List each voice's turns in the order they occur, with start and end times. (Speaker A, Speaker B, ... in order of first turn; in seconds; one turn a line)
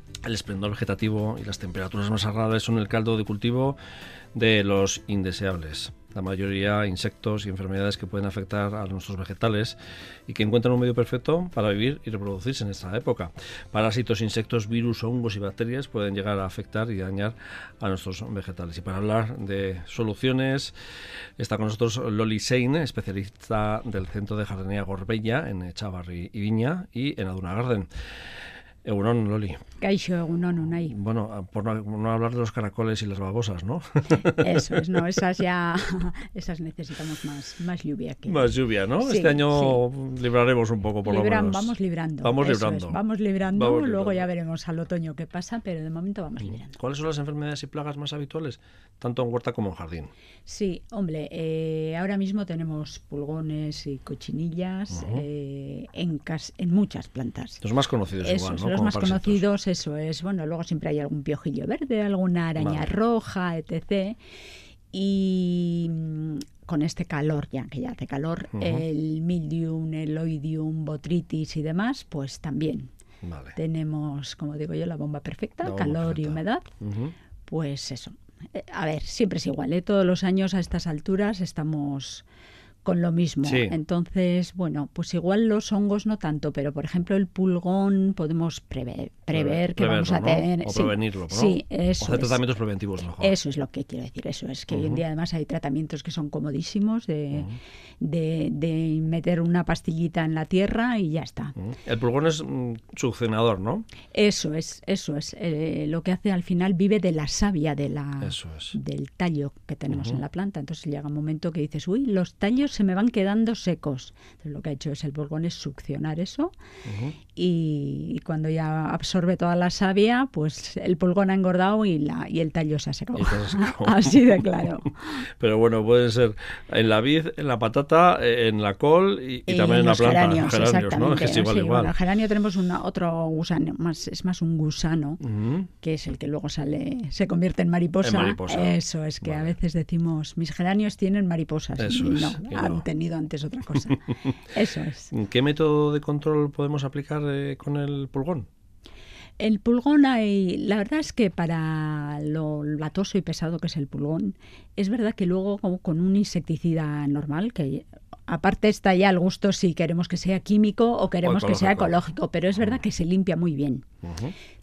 Speaker A: 0.2-3.8
Speaker A: 4.3-20.7
Speaker A: 21.4-27.9
Speaker A: 28.8-29.6
Speaker B: 29.8-30.9
Speaker A: 30.8-34.8
Speaker B: 34.2-38.5
Speaker A: 38.2-41.7
Speaker B: 39.0-39.8
Speaker B: 41.0-46.8
Speaker A: 42.2-43.0
Speaker A: 43.5-44.2
Speaker A: 46.7-50.1
Speaker B: 50.5-57.6
Speaker A: 54.9-55.2
Speaker A: 57.6-59.4
Speaker B: 58.2-64.2
Speaker A: 62.6-62.9
Speaker B: 64.9-72.9
Speaker A: 68.5-68.8
Speaker A: 73.2-73.5
Speaker B: 73.5-76.7
Speaker A: 75.6-77.1
Speaker B: 77.5-82.2
Speaker B: 82.8-92.4
Speaker A: 83.4-83.8
Speaker A: 89.3-93.3
Speaker B: 93.2-101.5
Speaker A: 94.7-95.0
Speaker A: 101.5-103.8
Speaker B: 104.1-116.5
Speaker A: 108.2-108.8
Speaker A: 109.9-110.2
Speaker A: 116.8-117.2
Speaker B: 117.3-125.2
Speaker A: 123.2-124.7
Speaker A: 125.2-131.9
Speaker B: 129.5-135.2
Speaker A: 135.2-135.7
Speaker B: 135.8-145.1
Speaker A: 138.0-139.5
Speaker A: 141.8-142.8
Speaker A: 145.1-148.5
Speaker B: 149.4-163.8
Speaker A: 161.2-162.0
Speaker A: 164.0-164.3